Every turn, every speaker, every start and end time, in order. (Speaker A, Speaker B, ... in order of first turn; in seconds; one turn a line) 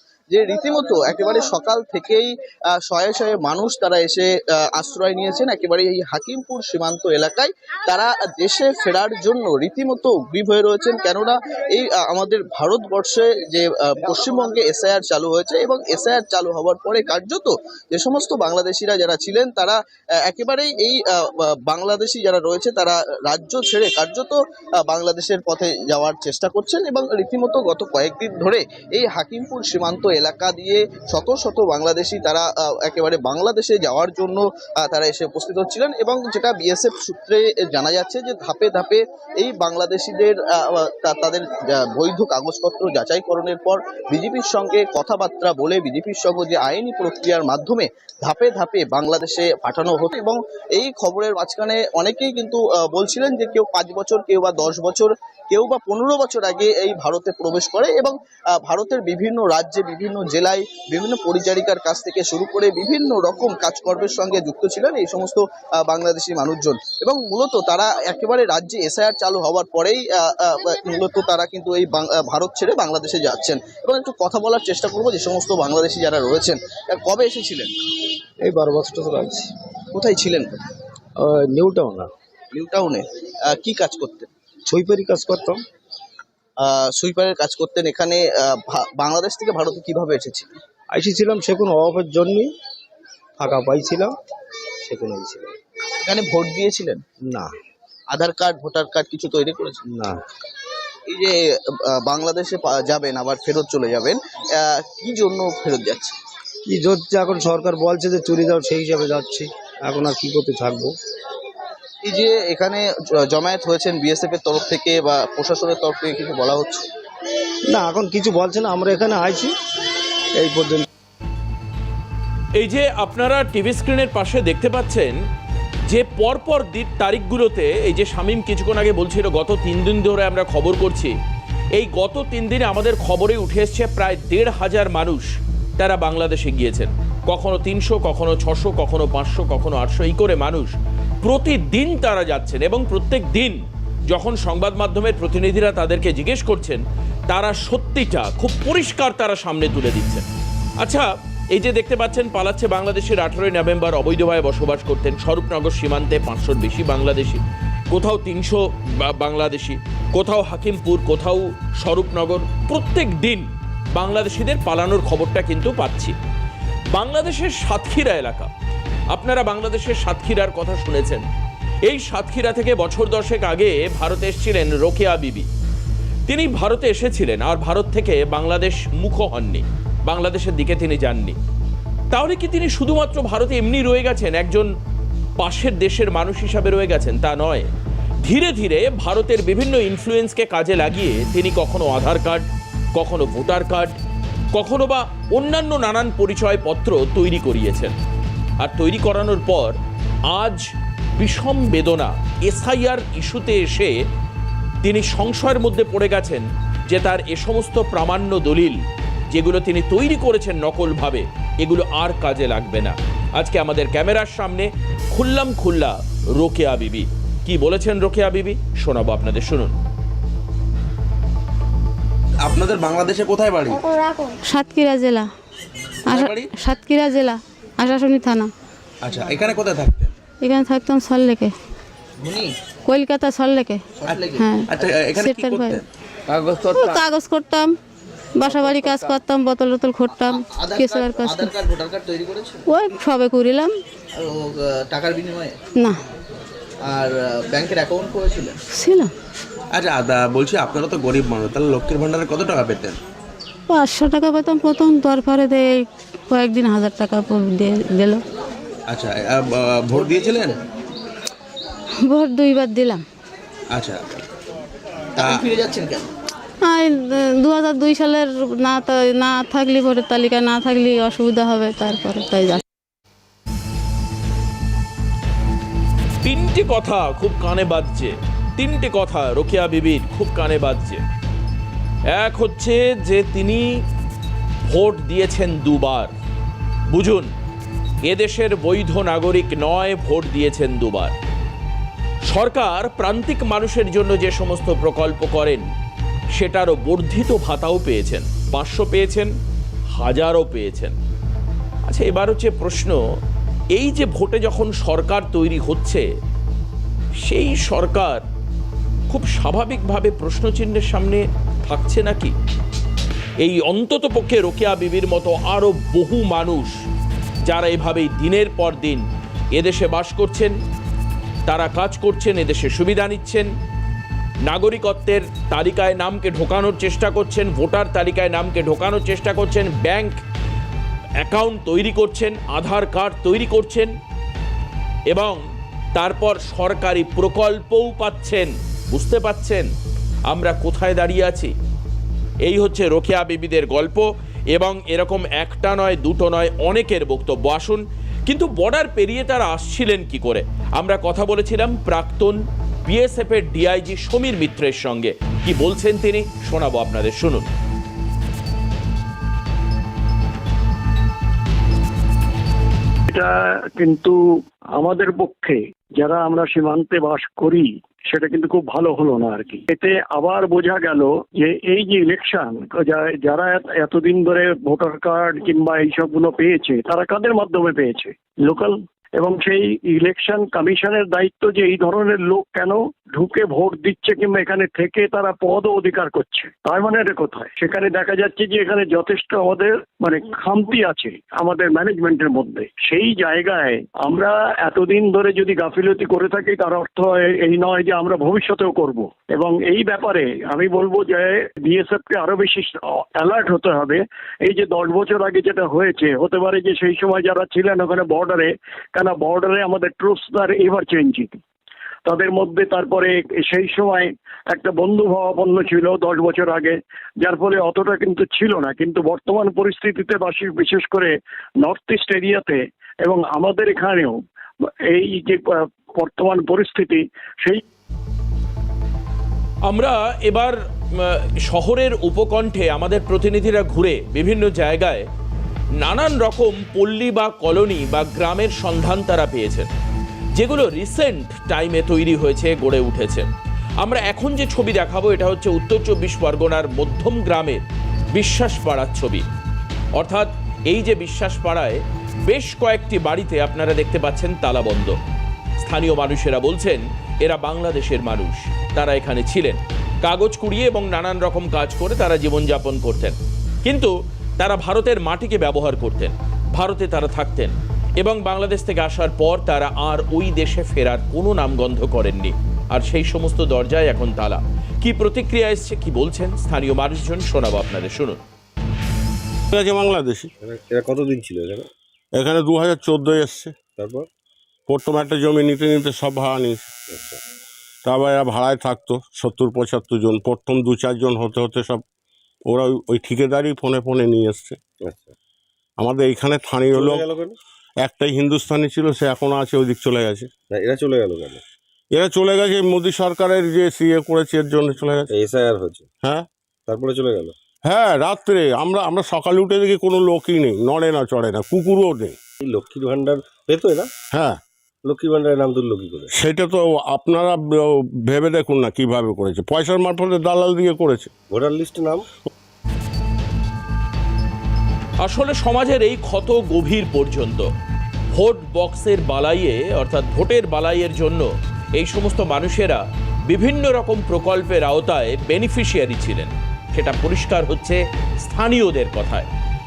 Speaker A: 0.3-77.7
Speaker B: 78.4-79.5
Speaker A: 79.9-80.5
Speaker B: 81.2-82.1
Speaker A: 82.5-84.3
Speaker B: 84.7-85.6
Speaker A: 86.6-90.5
Speaker B: 90.9-92.5
Speaker B: 93.4-94.1
Speaker B: 94.8-95.5
Speaker A: 96.0-97.0
Speaker A: 98.1-99.8
Speaker A: 101.1-106.2
Speaker B: 106.7-110.9
Speaker A: 112.0-116.9
Speaker B: 117.7-119.5
Speaker B: 120.4-120.9
Speaker C: 122.6-125.2
Speaker C: 125.9-131.1
Speaker C: 131.8-140.7
Speaker C: 141.2-143.6
Speaker C: 144.1-150.2
Speaker C: 150.8-157.4
Speaker C: 157.9-166.2
Speaker C: 166.9-168.5
Speaker C: 169.1-171.2
Speaker C: 171.8-175.5
Speaker C: 176.3-181.4
Speaker C: 182.1-184.7
Speaker C: 185.4-187.7
Speaker C: 188.2-193.9
Speaker C: 194.5-197.9
Speaker C: 198.6-199.8
Speaker C: 200.3-200.7
Speaker C: 201.2-203.9
Speaker C: 204.8-219.7
Speaker D: 222.4-223.8
Speaker E: 224.0-225.3
Speaker E: 226.1-228.5
Speaker D: 226.1-226.5
Speaker D: 229.0-230.1
Speaker E: 230.4-231.5
Speaker A: 232.2-232.5
Speaker E: 232.9-233.8
Speaker A: 234.1-234.5
Speaker D: 234.1-235.8
Speaker E: 234.3-235.8
Speaker D: 236.4-236.9
Speaker E: 236.7-237.7
Speaker E: 238.4-241.6
Speaker A: 240.6-242.6
Speaker E: 242.7-243.7
Speaker A: 244.9-245.5
Speaker A: 246.9-248.6
Speaker E: 248.8-249.1
Speaker D: 249.7-253.0
Speaker E: 253.7-258.2
Speaker D: 258.9-260.6
Speaker E: 262.1-263.0
Speaker D: 263.7-264.0
Speaker D: 265.2-265.4
Speaker A: 265.2-266.1
Speaker E: 266.6-272.6
Speaker C: 276.2-281.0
Speaker C: 282.1-283.7
Speaker C: 284.7-286.1
Speaker C: 286.9-287.3
Speaker C: 288.1-291.1
Speaker C: 292.3-295.6
Speaker C: 296.4-299.3
Speaker C: 300.0-300.9
Speaker C: 301.9-303.0
Speaker C: 303.8-306.1
Speaker C: 307.2-308.2
Speaker C: 309.1-312.3
Speaker C: 313.4-316.7
Speaker C: 317.5-319.0
Speaker C: 319.5-320.6
Speaker C: 321.5-323.5
Speaker C: 324.4-330.2
Speaker C: 331.2-333.9
Speaker C: 335.1-335.4
Speaker C: 335.9-339.7
Speaker C: 340.3-341.5
Speaker C: 342.4-357.5
Speaker F: 363.1-364.2
Speaker F: 364.8-411.4
Speaker F: 412.1-424.2
Speaker F: 424.9-427.6
Speaker C: 429.7-435.1
Speaker C: 435.8-439.7
Speaker C: 440.4-443.3
Speaker C: 443.8-447.6
Speaker C: 448.1-449.2
Speaker C: 450.0-455.0
Speaker C: 455.6-478.2
Speaker G: 479.5-480.3
Speaker H: 480.4-481.7
Speaker G: 482.2-483.6
Speaker H: 483.7-484.1
Speaker G: 484.7-486.7
Speaker H: 486.9-487.2
Speaker G: 487.9-491.8
Speaker G: 492.5-494.6
Speaker H: 494.8-495.1
Speaker G: 495.8-497.1
Speaker H: 496.7-497.4
Speaker G: 497.8-500.3
Speaker H: 500.5-501.4
Speaker G: 501.9-505.1
Speaker H: 505.1-505.9
Speaker H: 506.7-507.4
Speaker G: 507.7-512.2
Speaker H: 512.4-513.9
Speaker G: 514.1-514.4
Speaker H: 514.9-516.1
Speaker G: 516.1-521.1
Speaker H: 521.3-522.0
Speaker C: 525.0-527.5
Speaker C: 528.1-539.3